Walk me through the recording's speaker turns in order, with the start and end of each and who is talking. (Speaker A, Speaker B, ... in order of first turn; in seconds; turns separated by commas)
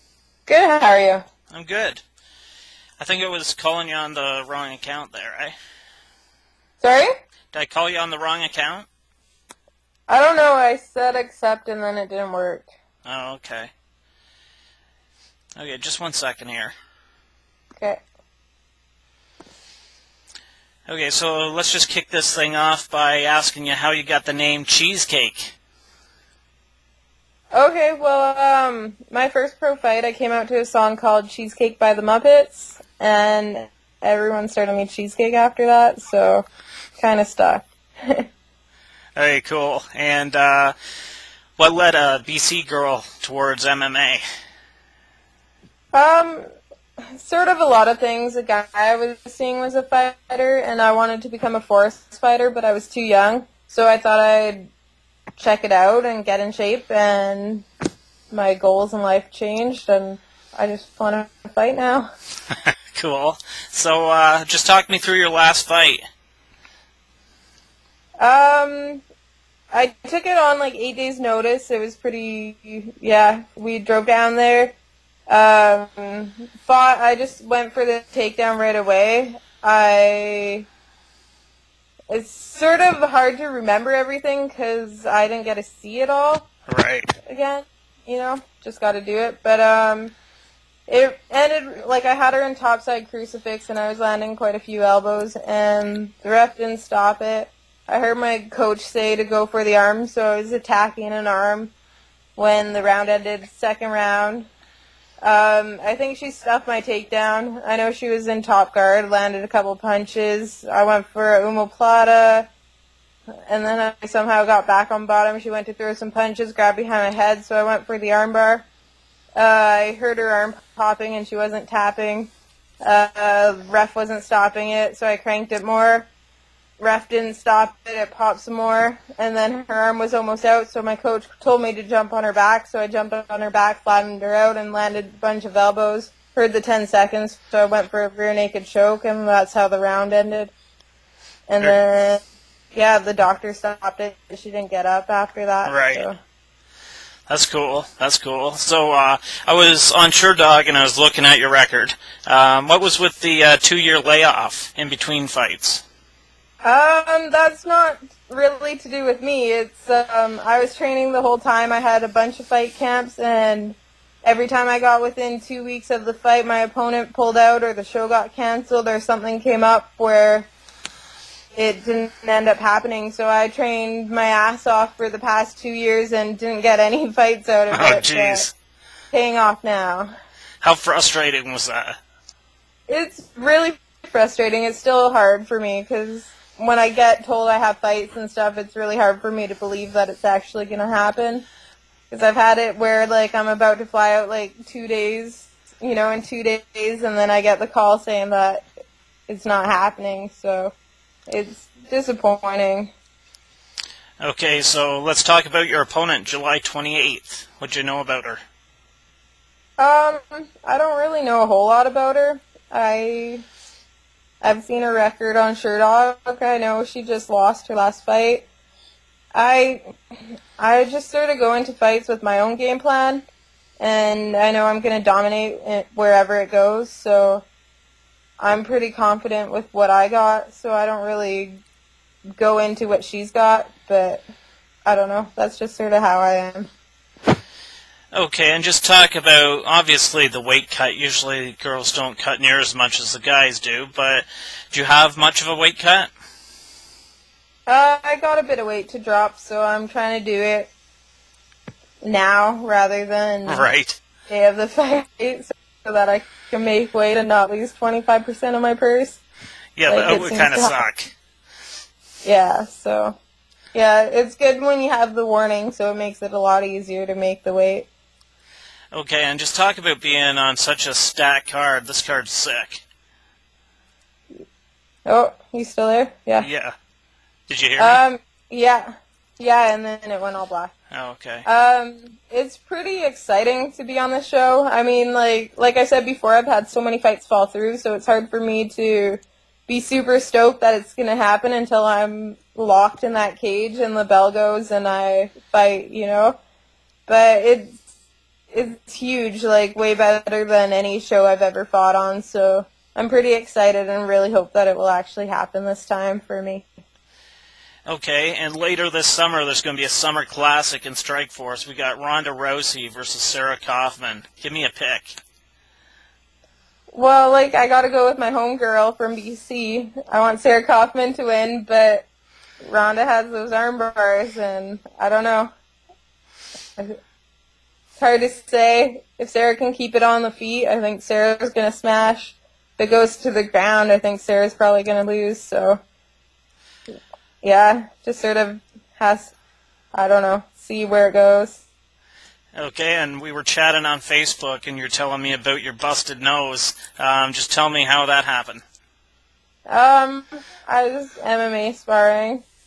Speaker A: 0.5-1.2, Speaker B: 1.5-2.0, Speaker B: 3.0-5.5, Speaker A: 6.8-7.1, Speaker B: 7.5-8.9, Speaker A: 10.1-12.7, Speaker B: 13.1-13.7, Speaker B: 15.6-16.7, Speaker A: 17.8-18.0, Speaker B: 20.9-25.6, Speaker A: 27.5-36.5, Speaker A: 37.0-38.3, Speaker B: 39.2-40.8, Speaker B: 41.6-44.2, Speaker A: 45.9-46.5, Speaker A: 47.1-54.7, Speaker A: 55.4-57.7, Speaker A: 58.3-62.1, Speaker B: 62.7-66.0, Speaker A: 68.2-69.0, Speaker A: 69.7-74.8, Speaker A: 75.3-80.7, Speaker A: 82.1-86.5, Speaker B: 86.7-87.1, Speaker A: 87.3-90.2, Speaker A: 90.9-101.7, Speaker A: 102.4-104.5, Speaker A: 105.2-112.5, Speaker A: 113.5-118.7, Speaker A: 119.4-122.3, Speaker A: 122.8-126.1, Speaker A: 126.8-140.5, Speaker A: 141.5-146.2, Speaker B: 145.7-146.0, Speaker B: 147.3-155.8, Speaker A: 156.6-170.5, Speaker A: 171.6-178.5, Speaker B: 177.7-178.5, Speaker A: 179.1-180.1, Speaker B: 180.6-182.0, Speaker A: 182.9-191.4, Speaker A: 192.1-198.7, Speaker A: 199.3-200.7, Speaker A: 201.3-202.9, Speaker B: 204.2-208.4, Speaker A: 209.8-213.4, Speaker A: 214.4-218.5, Speaker A: 219.3-219.9, Speaker A: 220.6-223.3, Speaker A: 223.8-227.4, Speaker A: 228.4-231.6, Speaker A: 232.4-234.2, Speaker A: 234.8-236.7, Speaker B: 238.1-246.1, Speaker A: 247.7-250.7, Speaker A: 252.0-253.7, Speaker B: 253.5-254.0, Speaker A: 254.3-259.2, Speaker B: 259.8-261.1, Speaker A: 259.9-260.8, Speaker A: 262.2-263.2, Speaker A: 263.7-267.9, Speaker B: 268.9-272.8, Speaker A: 275.1-276.5, Speaker B: 276.4-276.7, Speaker B: 277.5-278.0, Speaker A: 277.8-280.7, Speaker B: 280.9-281.4, Speaker A: 281.4-296.4, Speaker A: 297.1-297.8, Speaker A: 298.5-306.7, Speaker B: 307.9-315.2, Speaker A: 316.9-322.1, Speaker A: 322.6-325.5, Speaker A: 328.0-335.8, Speaker A: 337.4-339.3, Speaker A: 339.9-341.6, Speaker B: 342.6-348.6, Speaker A: 349.7-352.4